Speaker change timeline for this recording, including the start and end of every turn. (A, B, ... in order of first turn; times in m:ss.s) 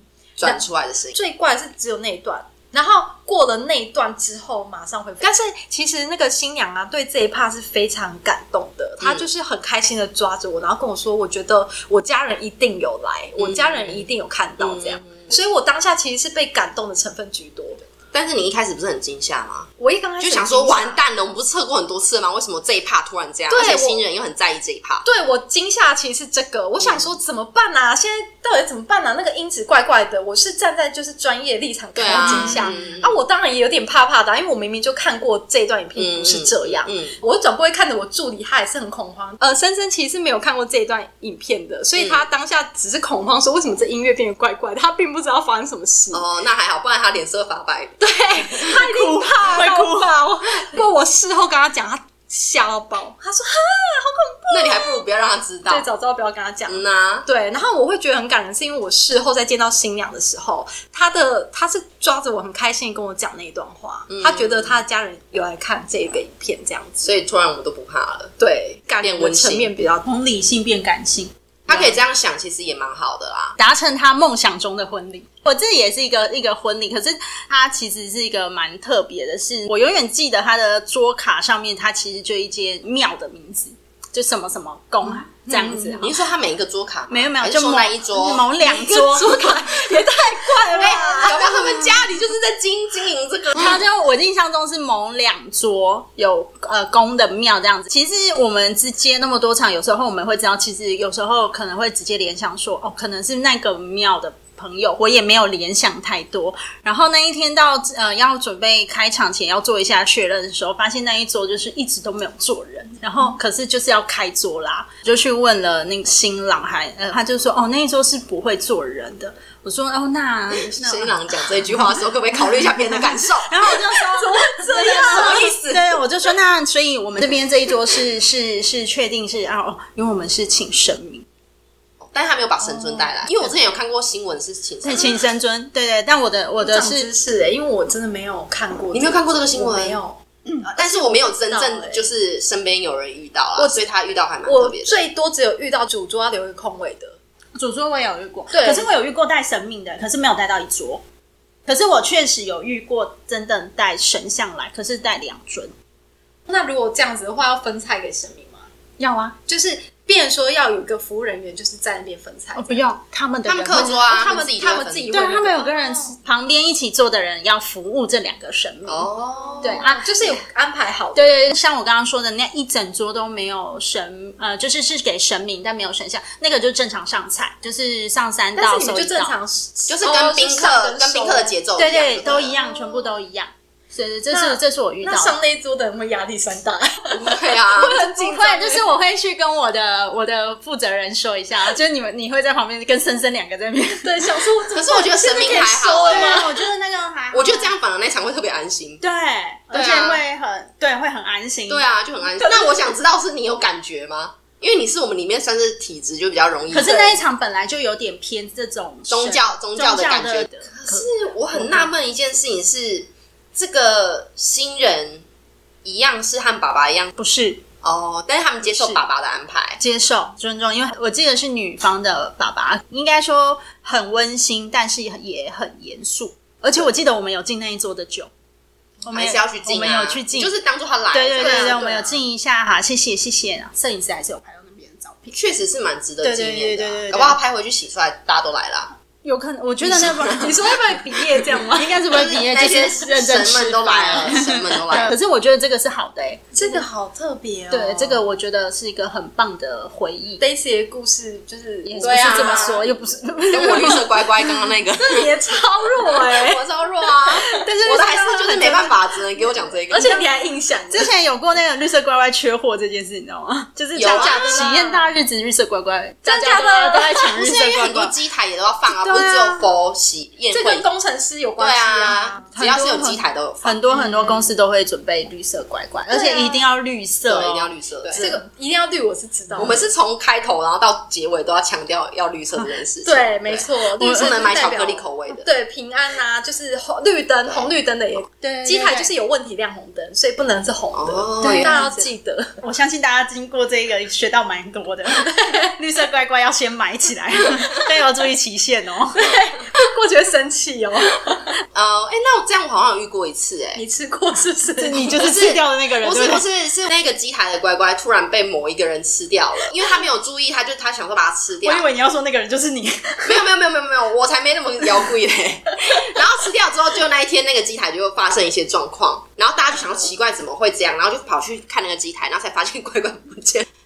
0:00.4-0:01.2 A
0:00.4-0:17.8 B
0:09.0-0:09.2 A
0:13.4-0:14.0 A
0:14.6-0:15.3 A
0:18.1-0:25.0 A
0:19.8-0:21.0 B
0:23.5-0:24.0 B
0:25.0-0:46.2 B
0:26.8-0:27.1 A
0:32.0-0:33.2 A
0:32.1-0:32.8 C
0:36.0-0:37.2 A
0:42.0-0:42.2 A
0:46.1-0:48.5 A
0:48.0-0:55.0 B
0:48.6-0:50.1 C
0:54.5-0:55.9 A
0:55.7-1:07.0 B
0:56.7-0:57.2 A
1:04.1-1:04.8 A
1:07.0-1:08.4 A
1:08.4-1:10.1 B
1:09.0-1:09.7 A
1:10.0-1:12.0 C
1:11.7-1:13.6 A
1:13.6-1:26.2 C
1:25.4-1:26.0 B
1:25.7-1:29.4 A
1:27.1-1:29.5 C
1:28.7-1:31.6 B
1:30.5-1:31.7 C
1:30.7-1:33.8 A
1:33.5-2:01.4 C
2:00.7-2:03.6 A
2:03.0-2:11.2 C
2:03.9-2:05.5 B
2:04.7-2:06.0 A
2:12.0-2:15.2 A
2:12.7-2:13.5 C
2:14.8-2:17.1 C
2:16.6-2:22.1 B
2:18.9-2:20.0 A
2:20.8-2:25.0 A
2:23.6-2:23.9 B
2:24.4-2:27.2 B
2:27.6-2:31.0 C
2:28.5-2:28.9 B
2:31.7-2:35.7 C
2:36.5-2:38.7 B
2:39.0-2:39.4 C
2:39.5-2:42.9 B
2:42.5-2:44.1 C
2:43.4-2:45.2 A
2:43.7-2:46.2 B
2:45.1-2:49.1 C
2:48.9-2:49.8 A
2:49.1-2:51.4 B
2:49.6-2:50.1 C
2:51.1-2:59.4 C
2:58.6-3:01.5 B
2:59.9-3:02.6 A
3:01.8-3:05.4 C
3:04.3-3:08.9 B
3:07.1-3:08.0 A
3:07.9-3:14.4 C
3:14.0-3:16.5 B
3:14.7-3:16.5 A
3:16.1-3:17.7 C
3:17.3-3:19.0 A
3:19.0-3:21.9 C
3:19.7-3:20.2 A
3:21.7-3:27.2 A
3:26.7-3:31.9 C
3:29.1-3:35.2 A
3:35.8-3:37.1 A
3:37.2-3:37.6 C
3:37.8-3:39.8 A
3:39.8-3:48.3 C
3:49.0-3:50.5 C
3:49.1-3:52.0 A
3:51.1-3:55.4 C
3:51.4-3:52.1 B
3:55.3-3:58.9 A
3:56.2-3:57.4 C
3:59.2-4:00.7 C
3:59.8-4:00.5 A
4:00.3-4:02.0 B
4:01.7-4:06.8 C
4:02.1-4:05.1 A
4:06.5-4:08.2 B
4:07.7-4:10.4 C
4:10.4-4:12.9 B
4:11.8-4:14.2 C
4:12.0-4:12.8 A
4:13.5-4:15.3 A
4:15.0-4:16.6 B
4:16.1-4:20.2 A
4:17.2-4:19.1 B
4:19.9-4:21.1 B
4:20.9-4:28.1 C
4:23.9-4:25.1 B
4:24.0-4:24.6 A
4:26.2-4:27.4 B
4:27.3-4:30.9 A
4:28.9-4:29.7 B
4:30.5-4:32.5 B
4:31.6-4:33.8 A
4:32.5-4:38.2 C
4:33.9-4:34.5 B
4:36.1-4:36.6 B
4:37.3-4:38.4 A
4:38.1-4:39.9 B
4:39.6-4:45.4 A
4:43.0-4:52.6 B
4:44.0-4:44.4 C
4:47.5-4:47.7 A
4:48.4-4:49.1 C
4:50.9-4:51.9 A
4:51.4-4:52.0 C
4:52.6-4:59.2 C
4:55.2-4:55.7 B
4:59.1-5:01.4 B
5:01.7-5:03.8 A
5:03.7-5:05.2 B
5:04.8-5:06.4 C
5:05.1-5:11.9 A
5:11.6-5:13.4 C
5:13.2-5:23.6 A